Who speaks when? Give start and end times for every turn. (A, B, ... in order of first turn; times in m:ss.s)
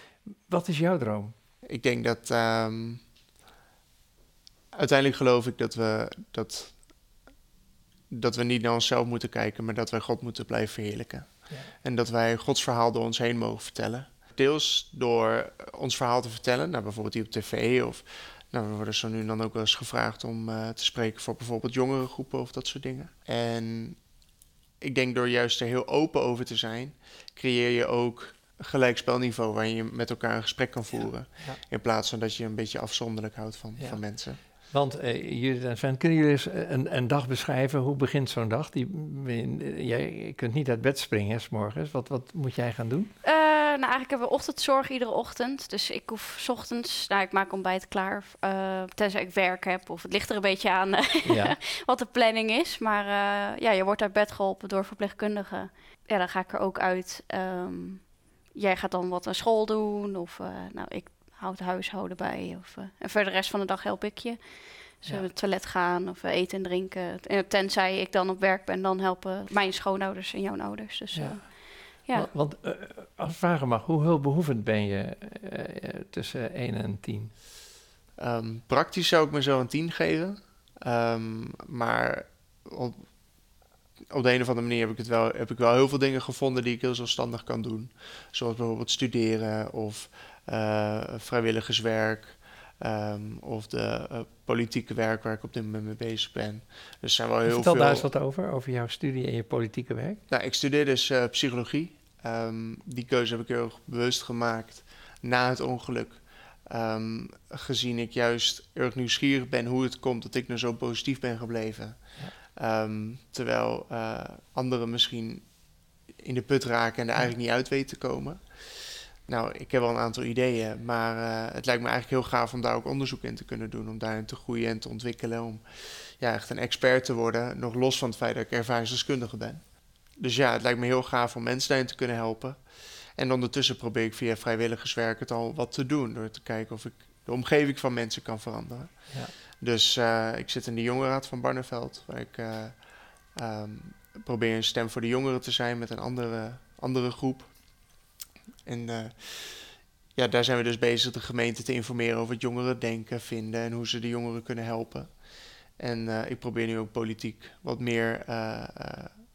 0:00.3-0:01.3 A
0:01.6-0:03.0 B
0:04.7-0:06.8 B
0:08.1-0:24.0 B
0:24.8-0:34.4 B
0:34.7-0:43.1 A
0:43.2-1:12.3 C
0:51.2-0:51.5 A
1:11.1-1:11.6 A
1:12.1-1:17.3 A
1:18.2-1:23.0 B
1:24.1-1:38.1 B
1:37.5-1:40.2 A
1:40.3-1:52.0 B
1:52.6-1:55.5 B
1:56.2-1:58.4 B
1:59.2-2:05.6 B
2:06.2-2:09.6 B
2:10.2-2:12.6 B
2:13.2-2:27.5 B
2:28.6-2:35.1 B
2:35.8-2:39.1 B